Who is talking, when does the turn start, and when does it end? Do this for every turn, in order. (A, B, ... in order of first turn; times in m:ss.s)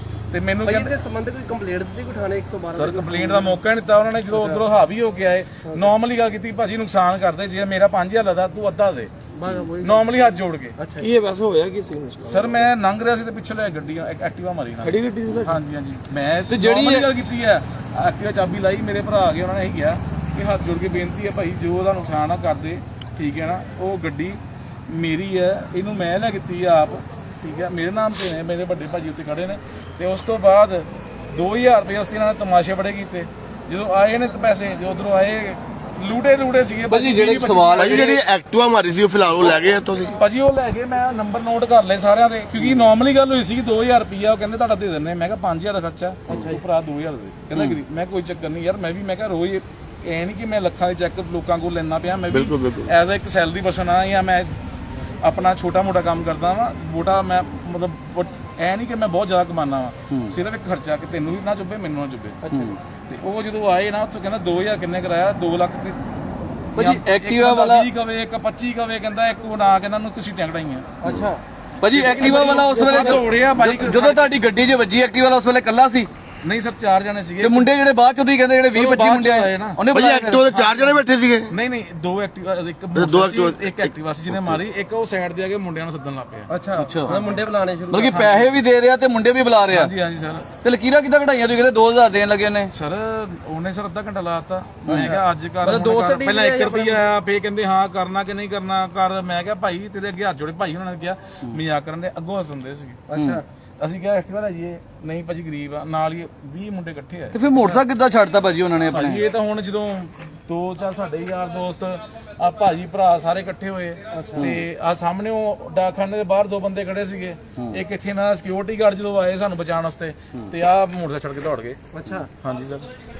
0:00.3-0:01.0 A
0:00.6-0:03.6 B
0:02.7-0:09.1 A
0:04.3-0:04.6 B
0:09.4-0:10.1 B
0:09.8-0:10.7 A
0:10.8-0:12.4 B
0:12.2-0:38.0 A
0:14.9-0:15.5 B
0:16.5-0:17.0 C
0:36.9-0:38.2 C
0:37.8-0:40.2 D
0:40.2-0:54.5 A
0:46.3-0:46.6 B
0:52.3-0:52.9 D
0:55.2-1:02.4 A
1:02.5-1:02.8 C
1:03.1-1:06.0 A
1:06.8-1:07.8 C
1:06.8-1:10.8 A
1:11.0-1:11.4 B
1:11.8-1:16.1 C
1:11.9-1:14.3 A
1:16.4-1:17.7 A
1:17.4-1:20.4 C
1:18.7-1:19.8 A
1:19.9-1:21.5 D
1:20.4-1:26.5 A
1:22.9-1:24.6 D
1:26.5-1:28.5 B
1:26.8-1:27.2 C
1:27.9-1:29.9 C
1:28.1-1:28.5 A
1:29.7-1:30.5 A
1:30.6-1:32.7 C
1:32.7-1:43.0 A
1:34.8-1:35.2 C
1:35.6-1:37.0 B
1:43.1-1:43.4 B
1:43.1-1:43.4 C
1:43.8-1:47.4 A
1:47.3-1:49.2 C
1:48.9-2:01.8 A
1:54.1-1:54.4 B
1:54.3-1:54.6 C
2:01.9-2:02.3 B
2:02.4-2:02.9 A